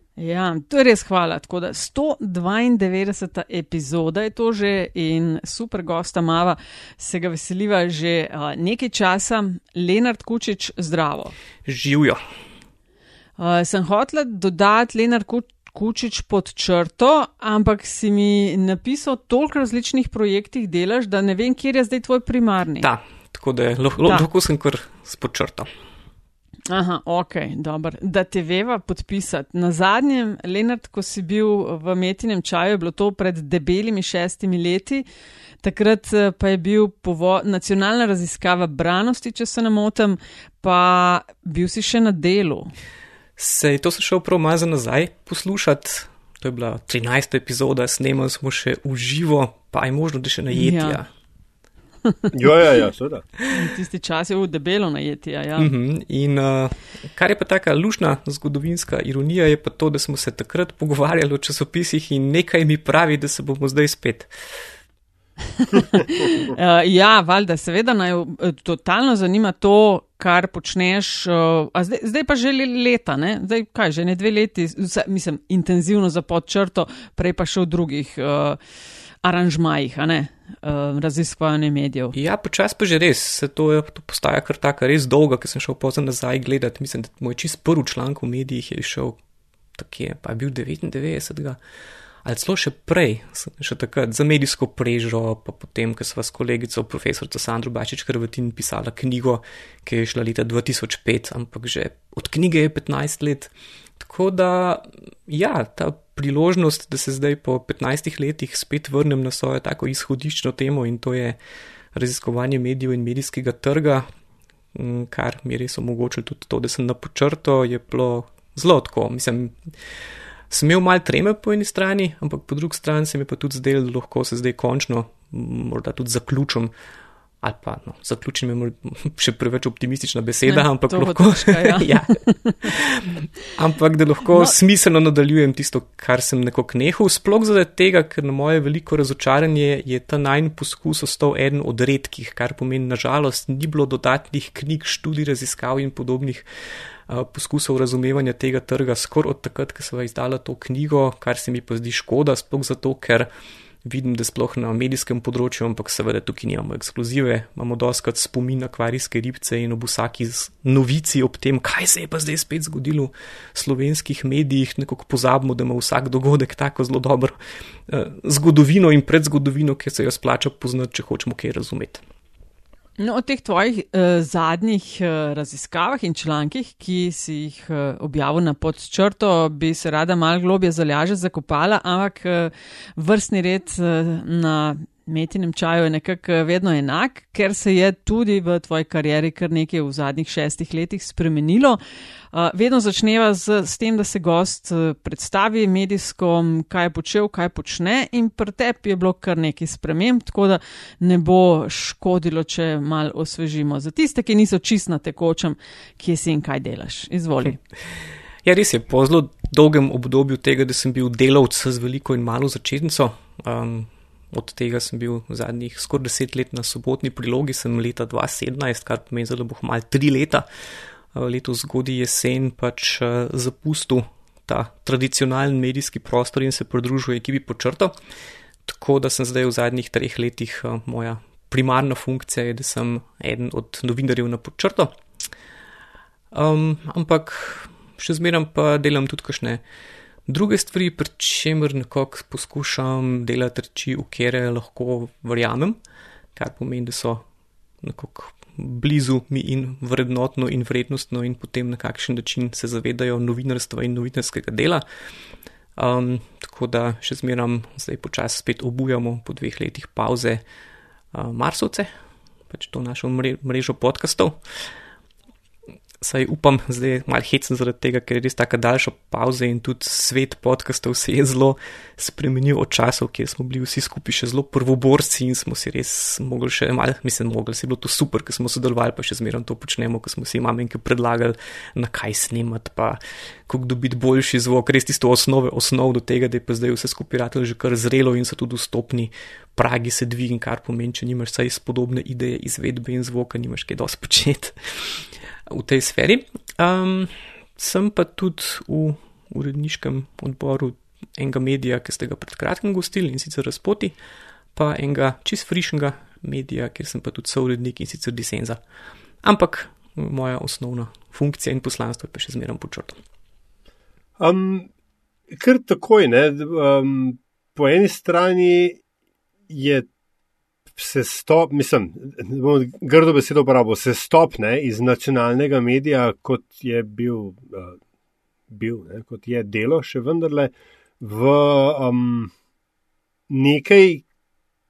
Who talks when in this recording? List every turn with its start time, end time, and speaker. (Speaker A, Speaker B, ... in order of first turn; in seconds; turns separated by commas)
Speaker A: 0.2-11.3, Speaker B: 11.6-12.2, Speaker A: 13.4-22.9, Speaker B: 22.8-25.7, Speaker A: 26.7-35.0, Speaker A: 35.6-42.7, Speaker B: 43.4-51.1, Speaker A: 50.5-51.0, Speaker C: 52.3-53.2, Speaker A: 53.5-55.7, Speaker B: 55.6-64.3, Speaker A: 65.6-78.6, Speaker A: 79.2-82.1, Speaker B: 82.1-89.2, Speaker B: 89.8-91.6, Speaker B: 92.2-111.4, Speaker B: 111.9-114.0, Speaker B: 114.7-119.6, Speaker B: 120.5-126.7, Speaker B: 127.4-146.4, Speaker A: 130.5-132.7, Speaker B: 147.1-153.3, Speaker B: 153.8-167.3, Speaker B: 167.9-172.0, Speaker A: 173.0-191.8, Speaker A: 192.3-207.6, Speaker B: 208.4-220.4, Speaker B: 221.1-227.9, Speaker B: 228.6-234.9, Speaker B: 236.3-239.6, Speaker B: 240.3-245.8, Speaker B: 246.3-247.2, Speaker B: 247.8-254.8, Speaker B: 255.8-260.4, Speaker B: 261.1-261.9, Speaker B: 262.5-264.4, Speaker B: 266.0-303.9, Speaker B: 304.6-308.6, Speaker B: 309.2-313.0, Speaker C: 314.2-314.7, Speaker C: 315.3-318.8, Speaker C: 319.5-319.9, Speaker C: 320.8-327.8, Speaker C: 328.5-332.3, Speaker C: 333.3-334.0